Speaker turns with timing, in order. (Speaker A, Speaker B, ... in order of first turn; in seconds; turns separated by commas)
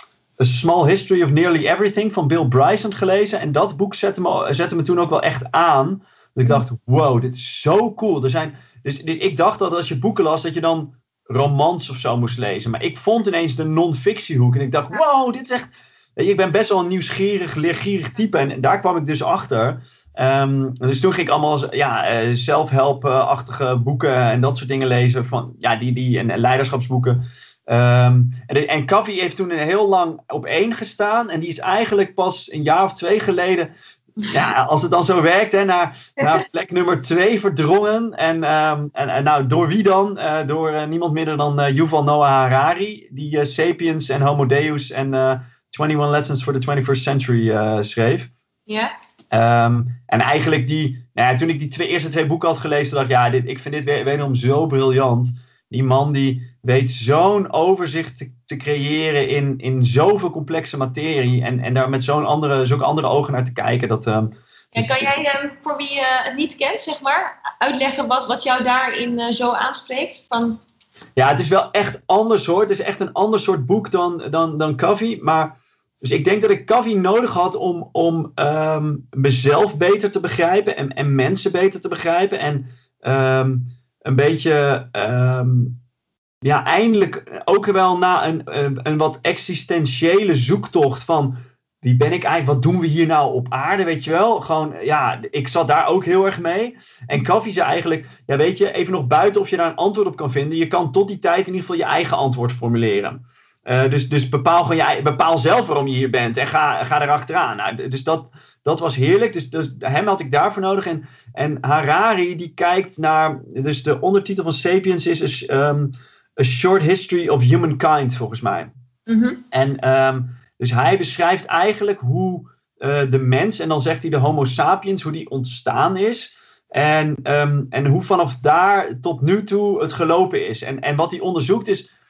Speaker A: 0.4-33.7, Speaker A: 34.3-48.3, Speaker B: 48.7-48.9, Speaker A: 49.3-65.1, Speaker B: 64.7-70.6, Speaker A: 71.2-85.8, Speaker A: 86.4-118.7, Speaker B: 119.1-119.4, Speaker A: 119.5-131.9